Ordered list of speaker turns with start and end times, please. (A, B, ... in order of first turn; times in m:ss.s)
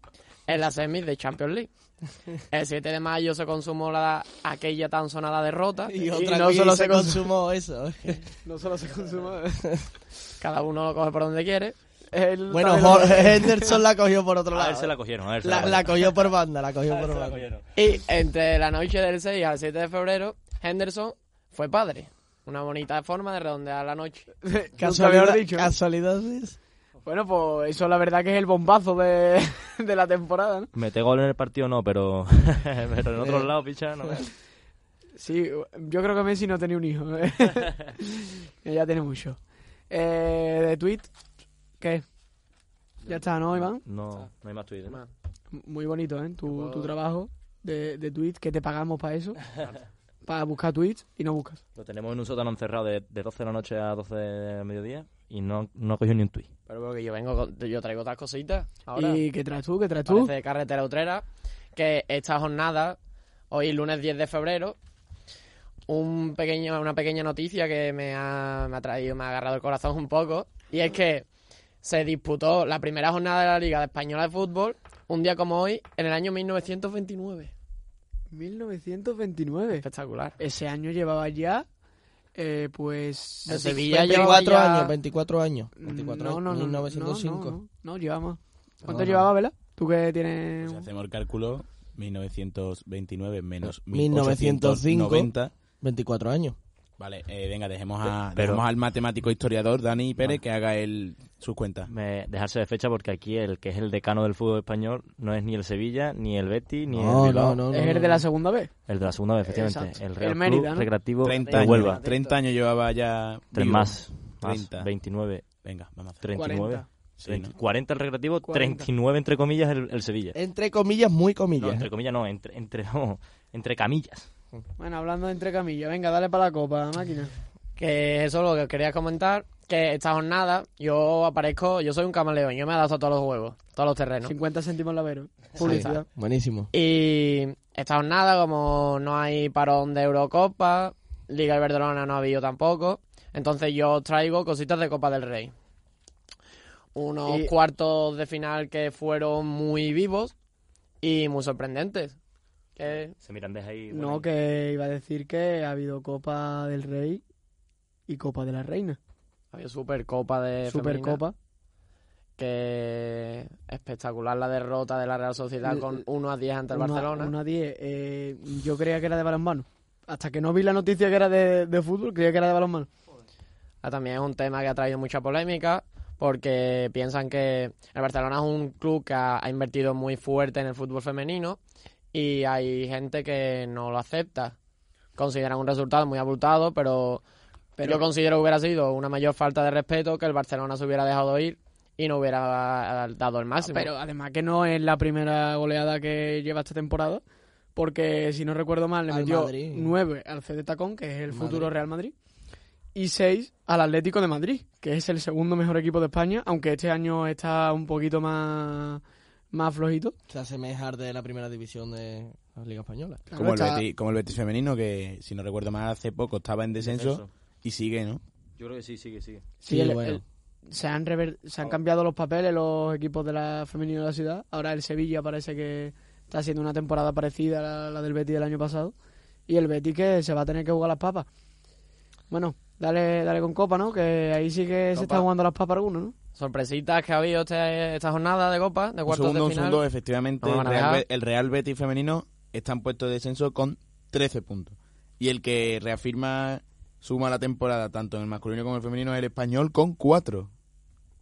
0:00.5-0:01.7 A
0:02.5-0:06.1 A
0:05.9-0:08.3 B
0:06.1-0:07.3 C
0:08.4-0:09.7 C
0:10.4-0:11.8 A
0:12.1-0:13.8 C
0:12.5-0:17.5 B
0:14.5-0:16.2 D
0:17.0-0:17.7 D
0:17.8-0:24.3 A
0:24.4-0:25.7 C
0:24.8-0:26.6 B
0:27.0-0:30.7 C
0:30.7-0:34.3 D
0:33.2-0:33.5 B
0:35.2-0:39.4 C
0:39.9-0:41.1 C
0:41.8-0:42.0 C
0:43.1-0:43.8 C
0:43.6-0:45.0 D
0:45.5-0:49.4 C
0:46.5-0:46.9 A
0:50.3-0:51.6 C
0:51.8-0:56.5 D
0:56.7-0:59.2 A
0:58.9-1:00.3 C
1:00.1-1:03.0 A
1:03.5-1:04.8 A
1:05.9-1:11.3 A
1:11.8-1:17.5 A
1:18.3-1:19.8 C
1:19.8-1:20.4 A
1:20.4-1:21.7 C
1:22.4-1:24.9 C
1:23.5-1:24.9 A
1:23.5-1:27.6 B
1:25.8-1:30.9 C
1:28.9-1:29.2 B
1:30.6-1:35.5 E
1:33.6-1:36.6 B
1:37.0-1:41.9 E
1:38.4-1:38.6 D
1:41.9-1:47.6 D
1:46.9-1:48.2 B
1:47.7-1:48.7 C
1:48.9-1:52.0 D
1:49.5-1:50.9 C
1:51.2-1:54.9 E
1:51.3-1:52.4 A
1:53.5-1:55.4 D
1:55.6-1:56.2 E
1:56.2-2:00.4 D
1:56.4-1:56.9 C
1:57.2-1:57.5 E
1:58.4-1:58.9 C
2:00.3-2:01.9 B
2:01.6-2:04.3 D
2:04.8-2:07.3 C
2:07.8-2:14.3 A
2:14.2-2:16.1 C
2:15.6-2:16.0 A
2:15.6-2:16.7 B
2:16.7-2:25.5 A
2:26.9-2:30.3 A
2:27.3-2:27.5 C
2:31.0-2:32.2 A
2:32.8-2:33.1 A
2:33.2-2:34.3 D
2:33.9-2:37.2 C
2:38.1-2:39.0 C
2:39.5-2:41.2 A
2:40.6-2:41.4 C
2:42.4-2:47.3 A
2:45.6-2:46.0 C
2:46.7-2:52.9 C
2:53.8-3:01.6 A
3:02.1-3:04.6 A
3:05.2-3:07.2 A
3:07.8-3:08.0 C
3:07.8-3:13.9 A
3:13.6-3:17.2 C
3:17.8-3:22.2 C
3:19.1-3:20.0 B
3:21.3-3:21.7 B
3:23.0-3:30.2 C
3:30.3-3:33.2 B
3:33.3-3:33.8 C
3:33.4-3:38.2 E
3:36.8-3:37.3 D
3:38.6-3:39.4 D
3:39.6-3:48.9 C
3:39.7-3:40.2 B
3:49.5-3:51.3 C
3:52.3-3:56.1 C
3:55.0-3:55.3 A
3:56.4-3:59.8 A
3:59.1-4:10.5 E
4:00.4-4:01.0 A